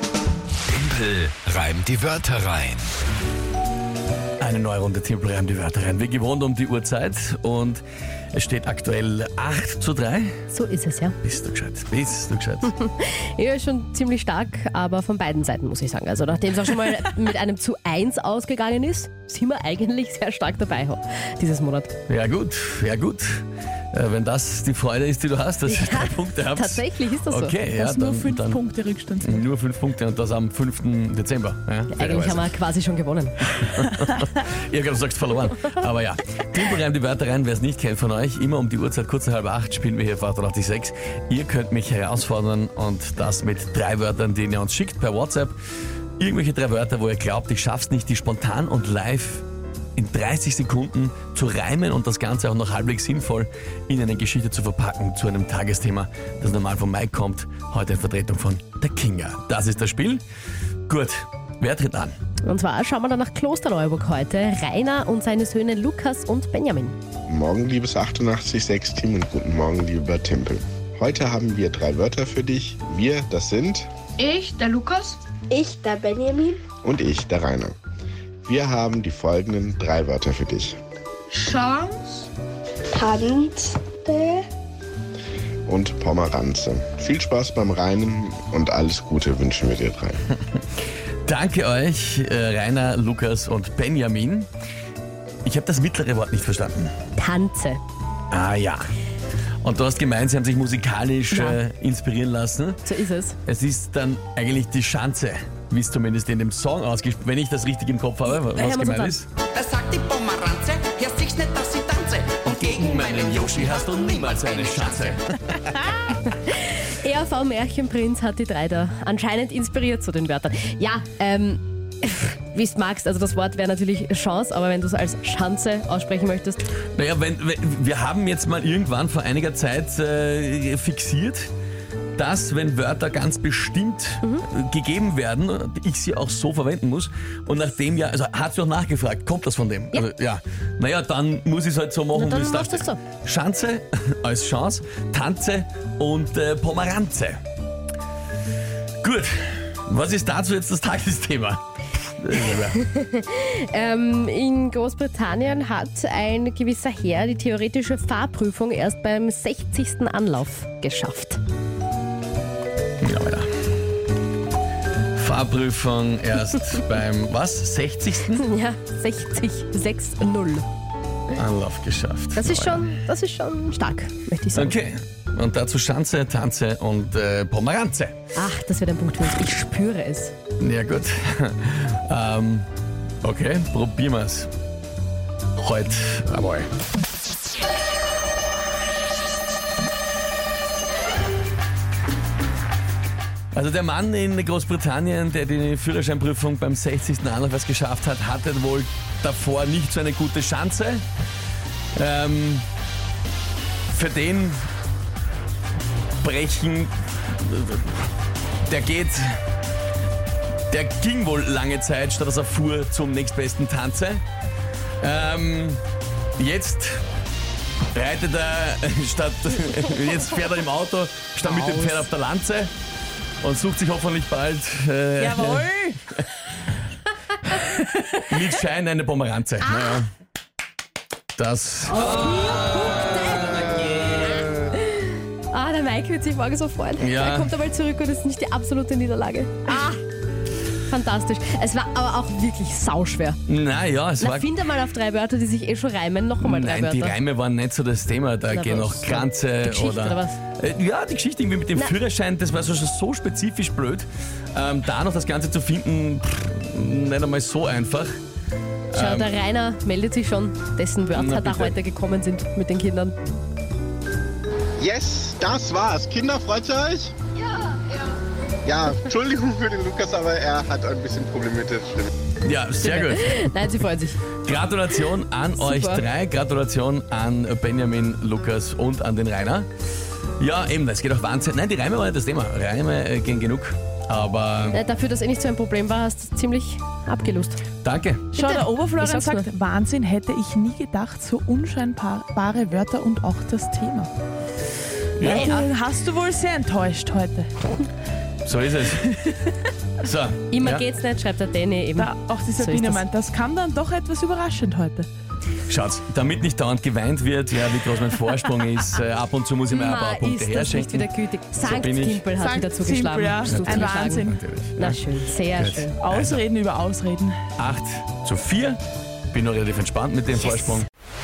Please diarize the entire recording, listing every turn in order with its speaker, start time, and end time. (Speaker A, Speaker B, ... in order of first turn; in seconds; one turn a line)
Speaker A: 0.7-2.8
Speaker B: 4.4-7.8
Speaker B: 8.3-10.3
Speaker C: 10.5-11.2
Speaker B: 11.2-12.7
Speaker C: 12.7-21.9
Speaker B: 22.1-28.6
Speaker C: 25.6-27.5
Speaker D: 27.7-29.4
Speaker B: 29.2-32.5
Speaker C: 31.9-33.7
Speaker B: 33.5-45.5
Speaker B: 46.2-49.4
Speaker B: 50.0-60.2
Speaker B: 60.9-62.1
Speaker C: 62.4-67.0
Speaker E: 67.3-73.9
Speaker F: 74.2-75.2
Speaker G: 75.5-76.6
Speaker E: 76.8-77.8
Speaker E: 78.5-80.8
Speaker F: 81.3-82.3
Speaker G: 82.9-84.5
Speaker E: 85.7-90.2
Speaker B: 91.2-94.5
Speaker B: 95.4-96.9
Speaker C: 97.2-97.8
Speaker B: 98.3-98.9
Speaker B: 99.6-102.8
Speaker C: 101.3-101.6
Speaker C: 102.8-103.4
Speaker B: 103.5-109.3
Speaker C: 108.3-109.2
Speaker H: 109.5-115.2
Speaker B: 112.4-115.2
Speaker C: 116.3-126.6
Speaker B: 126.9-131.5
Speaker B: 132.2-147.4
Speaker C: 142.1-143.0
Speaker B: 149.0-152.8
Speaker C: 152.4-161.4
Speaker B: 163.0-163.5
Speaker B: 165.1-168.4
Speaker C: 168.3-170.7
Speaker B: 171.3-172.8
Speaker C: 172.3-174.8
Speaker B: 174.5-178.1
Speaker C: 178.3-180.3
Speaker B: 180.6-182.7
Speaker B: 183.2-184.5
Speaker B: 185.6-186.7
Speaker B: 193.5-201.0
Speaker B: 201.9-202.7
Speaker B: 203.9-204.6
Speaker B: 206.2-208.1
Speaker B: 208.6-209.4
Speaker B: 210.7-214.2
Speaker B: 215.0-215.8
Speaker B: 216.4-217.0
Speaker B: 217.9-222.7
Speaker B: 223.4-226.2
Speaker D: 225.2-226.0
Speaker B: 228.2-230.1
Speaker C: 229.6-230.0
Speaker B: 231.4-232.2
Speaker C: 232.0-240.0
Speaker B: 237.0-237.5
Speaker C: 240.9-243.4
Speaker B: 243.5-244.5
Speaker C: 244.2-247.2
Speaker B: 246.4-258.1
Speaker C: 248.5-250.4
Speaker B: 258.9-259.4
Speaker C: 258.9-263.1
Speaker B: 261.1-261.8
Speaker E: 264.8-267.1
Speaker E: 268.7-272.1
Speaker B: 272.4-273.7
Speaker C: 272.8-274.2
Speaker B: 274.4-279.7
Speaker C: 275.6-276.0
Speaker B: 280.4-284.8
Speaker C: 284.7-287.6
Speaker B: 287.8-288.2
Speaker D: 288.3-294.1
Speaker C: 288.4-289.5
Speaker B: 295.2-295.6
Speaker C: 295.2-295.7
Speaker D: 295.2-297.5
Speaker B: 298.4-299.4
Speaker B: 300.0-300.8
Speaker C: 300.5-303.0
Speaker D: 302.0-305.1
Speaker B: 305.7-312.2
Speaker C: 309.7-316.0
Speaker D: 312.3-314.4
Speaker B: 313.5-315.0
Speaker B: 315.6-316.4
Speaker D: 316.0-317.4
Speaker B: 317.6-318.8
Speaker B: 319.3-320.9